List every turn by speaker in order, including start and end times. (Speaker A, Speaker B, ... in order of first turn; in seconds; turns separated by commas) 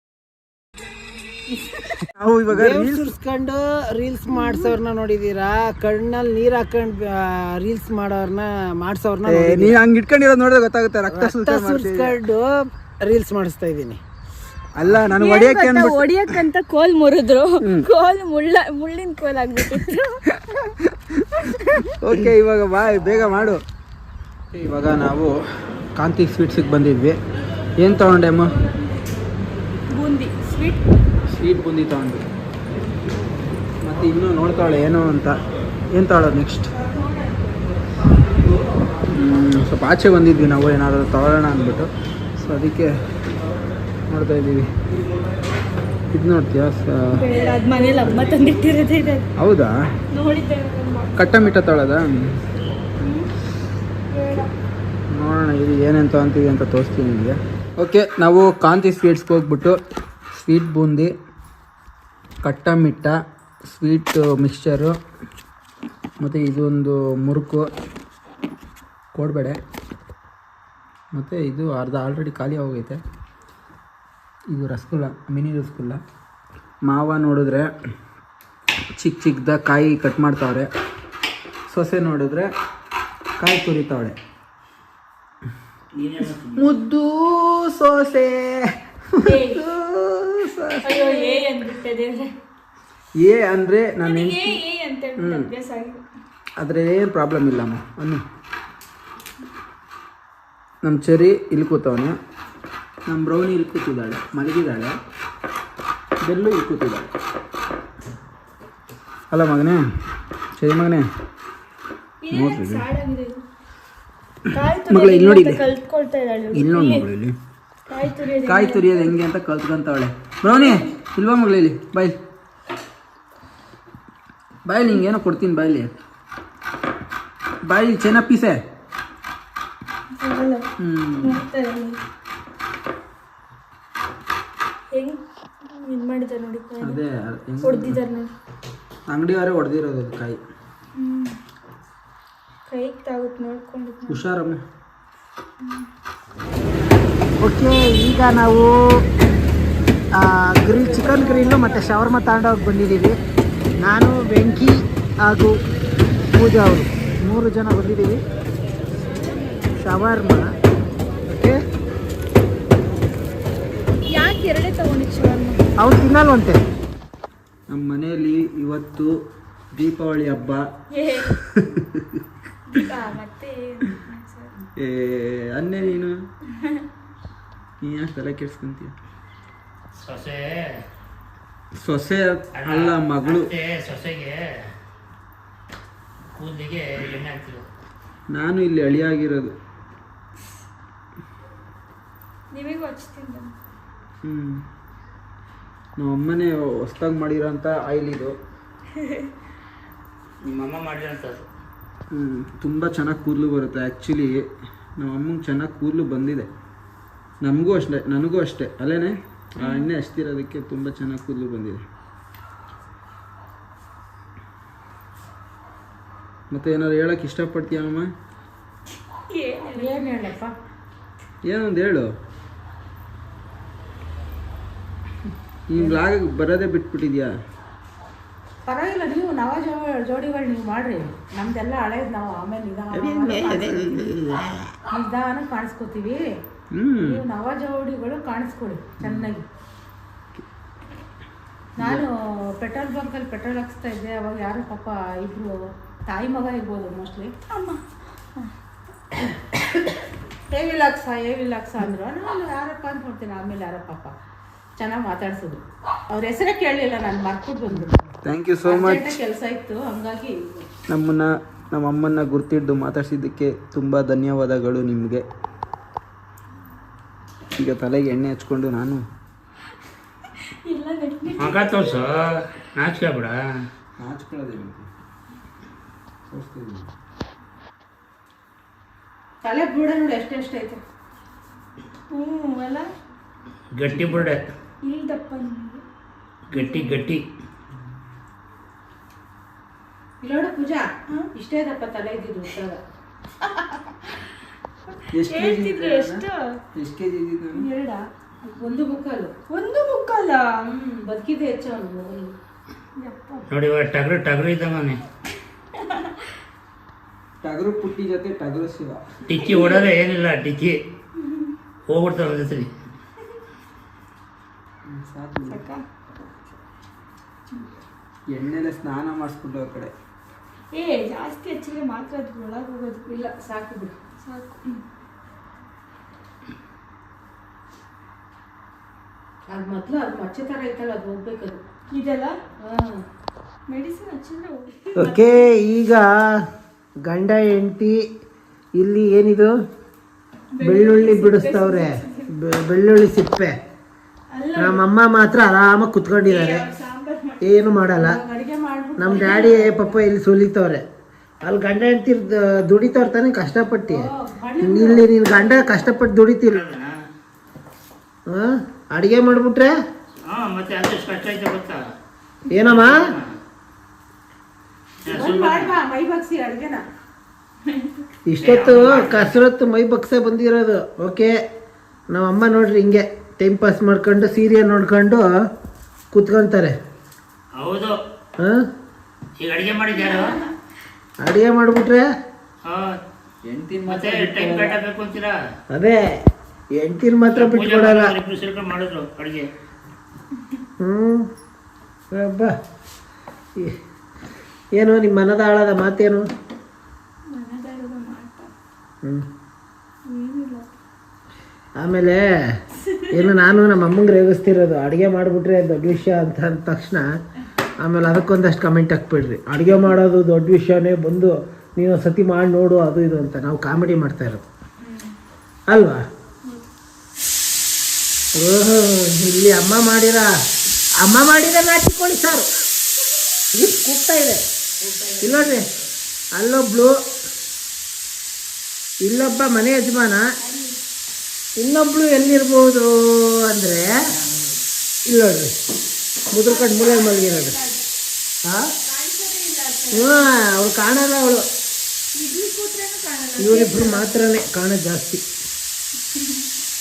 Speaker A: 2.1-3.1, Speaker B: 2.5-9.8, Speaker A: 9.2-12.2, Speaker B: 11.1-14.0, Speaker A: 14.8-16.4, Speaker C: 15.1-20.2, Speaker A: 17.6-17.9, Speaker A: 22.0-23.6, Speaker A: 24.5-25.3, Speaker A: 25.9-27.2, Speaker A: 27.8-28.6, Speaker C: 29.9-30.9, Speaker A: 31.3-32.2, Speaker A: 33.8-35.4, Speaker A: 35.9-36.7, Speaker A: 39.1-42.9, Speaker A: 44.1-44.7, Speaker A: 46.1-47.2, Speaker C: 47.2-49.3, Speaker D: 47.3-48.1, Speaker A: 49.4-49.7, Speaker C: 50.1-51.6, Speaker A: 51.1-52.1, Speaker C: 53.0-53.3, Speaker C: 54.1-54.5, Speaker A: 55.1-59.8, Speaker A: 60.3-61.1, Speaker A: 62.4-63.1, Speaker A: 63.7-64.9, Speaker A: 66.2-67.6, Speaker A: 69.1-69.6, Speaker A: 71.1-73.0, Speaker A: 74.5-76.0, Speaker A: 76.8-77.7, Speaker A: 79.0-80.7, Speaker A: 81.7-82.5, Speaker A: 83.4-84.2, Speaker E: 85.9-86.7, Speaker A: 86.5-91.5, Speaker C: 89.2-89.6, Speaker C: 90.8-92.3, Speaker A: 93.2-94.6, Speaker C: 94.0-96.0, Speaker A: 95.2-95.5, Speaker A: 96.6-98.2, Speaker A: 100.8-102.2, Speaker A: 103.1-104.9, Speaker A: 106.2-107.1, Speaker A: 109.3-109.8, Speaker A: 110.5-111.0, Speaker C: 112.2-113.4, Speaker A: 112.3-112.9, Speaker A: 114.5-115.7, Speaker C: 114.5-117.1, Speaker A: 116.5-117.3, Speaker C: 117.9-119.1, Speaker A: 118.3-122.2, Speaker C: 120.5-120.9, Speaker A: 124.7-125.9, Speaker A: 127.7-128.6, Speaker C: 130.2-130.7, Speaker A: 130.8-131.4, Speaker C: 131.2-132.0, Speaker C: 134.9-137.0, Speaker A: 136.8-138.0, Speaker C: 137.6-138.3, Speaker A: 139.1-140.4, Speaker C: 140.9-141.4, Speaker C: 142.7-144.2, Speaker A: 144.1-144.6, Speaker C: 145.6-145.8, Speaker B: 147.4-148.7, Speaker B: 150.2-153.1, Speaker B: 153.8-155.6, Speaker B: 156.3-158.2, Speaker B: 159.8-160.4, Speaker B: 161.3-161.6, Speaker C: 164.1-165.7, Speaker B: 165.8-166.6, Speaker A: 167.7-169.1, Speaker A: 169.7-170.6, Speaker C: 170.9-171.3, Speaker A: 171.2-172.0, Speaker C: 172.7-174.5, Speaker A: 174.8-176.2, Speaker A: 177.8-178.9, Speaker E: 180.0-180.6, Speaker A: 181.8-183.5, Speaker E: 182.5-184.4, Speaker E: 186.3-187.6, Speaker A: 188.3-189.5, Speaker C: 192.5-193.5, Speaker A: 194.2-194.6, Speaker A: 196.0-198.3, Speaker E: 200.4-201.4, Speaker A: 202.1-204.4, Speaker A: 205.0-206.5, Speaker A: 207.4-211.8, Speaker C: 209.6-209.9, Speaker A: 216.5-218.1, Speaker C: 219.3-220.1, Speaker D: 219.7-220.5, Speaker A: 221.4-222.1, Speaker A: 225.7-227.3, Speaker D: 228.6-234.1, Speaker B: 232.9-234.7, Speaker D: 234.9-236.2, Speaker A: 236.7-237.2, Speaker D: 237.0-239.4, Speaker A: 239.0-239.3, Speaker D: 241.8-247.3, Speaker A: 241.8-242.1, Speaker C: 247.4-247.8, Speaker D: 250.5-254.1, Speaker D: 254.8-258.0, Speaker A: 258.2-259.2, Speaker D: 258.6-260.7, Speaker A: 260.9-265.2, Speaker A: 267.6-269.0, Speaker C: 270.5-272.0, Speaker E: 271.4-272.2, Speaker E: 272.7-273.3, Speaker A: 274.0-274.9, Speaker A: 276.3-276.9, Speaker D: 279.4-280.8, Speaker C: 282.1-282.9, Speaker E: 283.8-284.4, Speaker A: 283.9-284.3, Speaker C: 284.8-285.8, Speaker E: 286.5-287.2, Speaker C: 286.6-287.2, Speaker D: 290.2-292.8, Speaker A: 295.1-296.2, Speaker C: 295.2-296.6, Speaker A: 296.8-297.7, Speaker D: 297.6-299.5, Speaker C: 299.4-300.5, Speaker D: 300.6-302.3, Speaker C: 303.0-303.5, Speaker E: 303.5-305.0, Speaker A: 307.4-309.0, Speaker E: 309.2-310.8, Speaker C: 309.4-309.8, Speaker E: 311.9-312.7, Speaker A: 314.9-315.6, Speaker C: 315.5-315.8, Speaker A: 318.3-319.9, Speaker C: 320.7-323.2, Speaker D: 323.1-323.9, Speaker C: 324.2-324.8, Speaker D: 329.5-331.6, Speaker C: 331.9-332.4, Speaker D: 332.6-333.0, Speaker C: 333.7-335.2, Speaker B: 334.9-336.2, Speaker B: 337.1-338.0, Speaker B: 338.8-339.5, Speaker C: 340.6-342.3, Speaker B: 340.6-343.5, Speaker C: 344.3-344.8, Speaker B: 344.6-346.7, Speaker C: 346.3-347.6, Speaker B: 347.4-348.2, Speaker D: 347.9-350.0, Speaker B: 349.0-350.8, Speaker B: 351.4-354.1, Speaker D: 353.9-355.6, Speaker B: 354.6-356.7, Speaker E: 356.5-356.9, Speaker B: 358.3-359.7, Speaker E: 360.2-361.8, Speaker B: 362.5-363.0, Speaker E: 362.5-363.3, Speaker E: 365.0-365.8, Speaker D: 365.1-366.8, Speaker B: 368.3-371.3, Speaker E: 368.4-369.4, Speaker B: 372.1-375.2, Speaker B: 376.1-376.7, Speaker E: 377.5-377.9, Speaker E: 379.4-380.4, Speaker B: 381.2-382.0, Speaker E: 382.6-383.0, Speaker A: 383.5-384.8, Speaker E: 383.9-385.3, Speaker B: 385.7-386.0, Speaker B: 386.8-388.1, Speaker E: 387.3-389.4, Speaker B: 390.8-391.3, Speaker B: 392.1-392.5, Speaker B: 394.7-396.2, Speaker C: 397.3-398.5, Speaker C: 400.1-400.7, Speaker B: 401.8-402.2, Speaker C: 402.9-403.2, Speaker B: 403.1-407.0, Speaker B: 407.8-414.4, Speaker C: 414.9-415.1, Speaker B: 415.7-416.0, Speaker B: 418.3-420.3, Speaker B: 421.0-422.5, Speaker B: 423.5-424.4, Speaker B: 425.2-425.6, Speaker B: 426.3-426.9, Speaker B: 429.0-430.2, Speaker C: 430.4-430.8, Speaker B: 431.6-433.9, Speaker B: 435.1-435.5, Speaker B: 436.3-437.6, Speaker C: 436.4-437.8, Speaker C: 438.8-440.3, Speaker B: 439.9-441.4, Speaker C: 442.1-444.1, Speaker B: 443.4-445.2